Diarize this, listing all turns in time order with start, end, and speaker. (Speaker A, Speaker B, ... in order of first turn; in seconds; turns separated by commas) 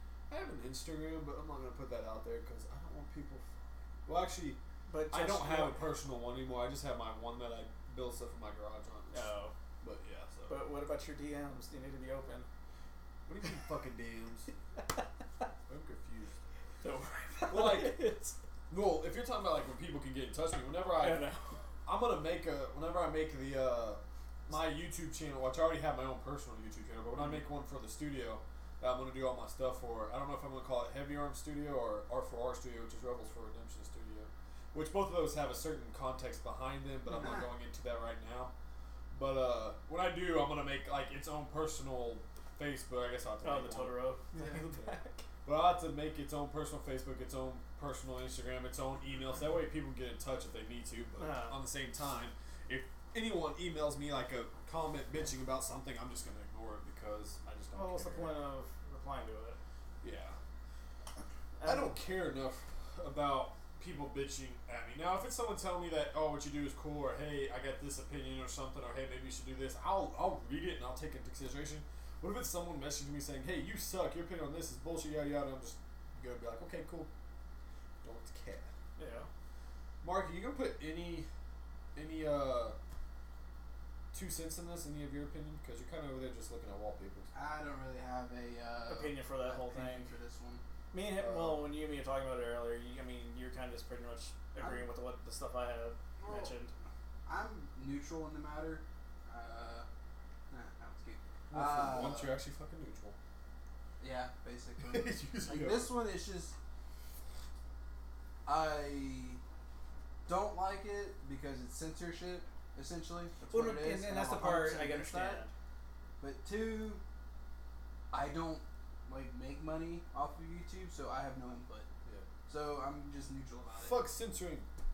Speaker A: 0.3-4.6, Speaker B: 4.9-5.9, Speaker A: 5.1-9.3, Speaker B: 9.1-9.5, Speaker A: 9.8-10.6, Speaker B: 10.5-12.5, Speaker A: 13.2-14.5, Speaker A: 15.7-16.4, Speaker B: 16.8-18.4, Speaker A: 17.5-18.1, Speaker A: 18.7-21.3, Speaker B: 21.0-21.6, Speaker A: 21.8-38.5, Speaker B: 27.1-27.4, Speaker C: 37.1-37.4, Speaker A: 39.1-44.1, Speaker B: 43.4-45.2, Speaker C: 44.3-44.6, Speaker A: 44.6-58.4, Speaker B: 51.2-51.6, Speaker B: 57.7-59.6, Speaker A: 60.0-60.4, Speaker B: 61.6-62.0, Speaker A: 61.6-77.1, Speaker A: 78.0-78.7, Speaker B: 79.0-79.3, Speaker A: 80.0-81.3, Speaker A: 81.9-82.8, Speaker A: 84.1-87.3, Speaker C: 87.3-90.6, Speaker B: 88.9-90.1, Speaker B: 90.9-96.7, Speaker A: 91.2-91.7, Speaker C: 94.6-94.8, Speaker C: 96.2-96.6, Speaker C: 97.2-99.9, Speaker C: 100.5-102.3, Speaker A: 101.5-103.2, Speaker C: 104.0-106.5, Speaker A: 104.8-106.0, Speaker C: 108.5-109.4, Speaker C: 110.2-115.4, Speaker B: 113.5-115.5, Speaker C: 116.2-117.0, Speaker C: 118.1-121.9, Speaker C: 122.5-124.0, Speaker A: 123.8-124.7